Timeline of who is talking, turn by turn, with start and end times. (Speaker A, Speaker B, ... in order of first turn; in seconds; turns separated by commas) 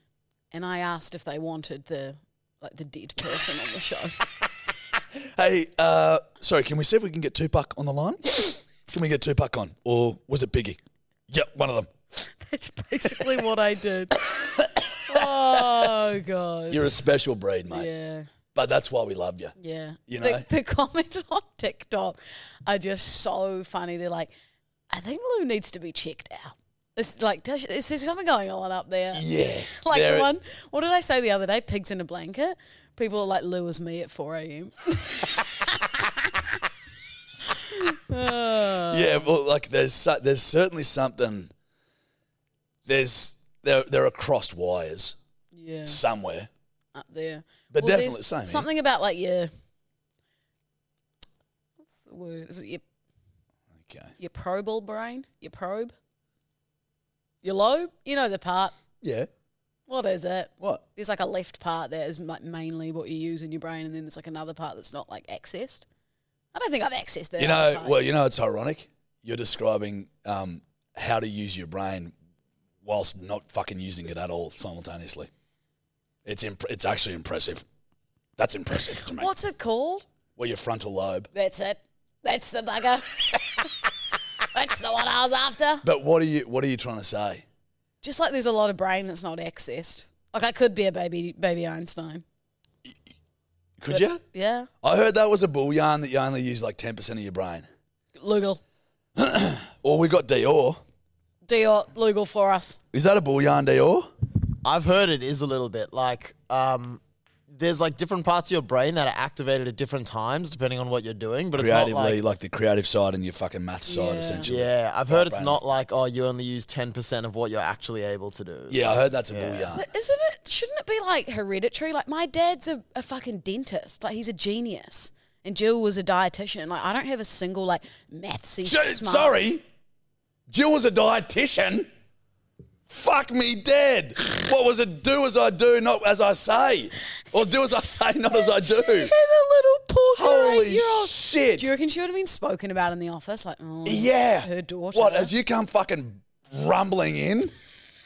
Speaker A: 0.5-4.2, Speaker B: 5.1-11.9, Speaker A: 12.2-14.1, Speaker B: 14.2-15.9, Speaker A: 15.1-16.9, Speaker B: 16.7-17.9, Speaker A: 17.7-18.3, Speaker B: 18.5-19.5, Speaker A: 19.6-24.3, Speaker B: 20.1-20.4, Speaker A: 24.9-35.4, Speaker B: 29.1-30.3, Speaker A: 37.6-39.3, Speaker B: 38.9-41.5, Speaker B: 42.8-45.2, Speaker A: 45.5-46.0, Speaker B: 45.9-46.5, Speaker A: 46.9-49.5, Speaker B: 47.7-48.7, Speaker A: 51.8-52.8, Speaker B: 53.7-54.1, Speaker A: 54.2-55.9, Speaker A: 57.4-58.8, Speaker B: 59.0-59.3, Speaker A: 59.9-65.8, Speaker A: 66.5-68.0, Speaker B: 67.4-72.1, Speaker B: 72.8-75.3, Speaker B: 76.2-77.6, Speaker B: 78.4-79.3, Speaker A: 79.2-80.0, Speaker B: 80.3-81.3, Speaker A: 81.3-83.7, Speaker A: 84.5-85.8, Speaker B: 85.8-87.4, Speaker A: 88.0-92.2, Speaker B: 93.8-94.2, Speaker A: 93.9-94.7, Speaker B: 94.8-97.7, Speaker A: 98.2-98.6, Speaker B: 99.2-100.8, Speaker A: 101.5-102.8, Speaker B: 102.9-104.1, Speaker C: 104.6-112.2, Speaker B: 111.5-115.6, Speaker A: 113.9-114.5, Speaker C: 114.5-119.8, Speaker B: 118.7-119.8, Speaker A: 119.7-129.4, Speaker B: 128.6-129.6, Speaker B: 130.5-131.9, Speaker B: 132.9-139.1, Speaker A: 138.5-145.3, Speaker B: 140.2-141.7, Speaker B: 143.8-147.5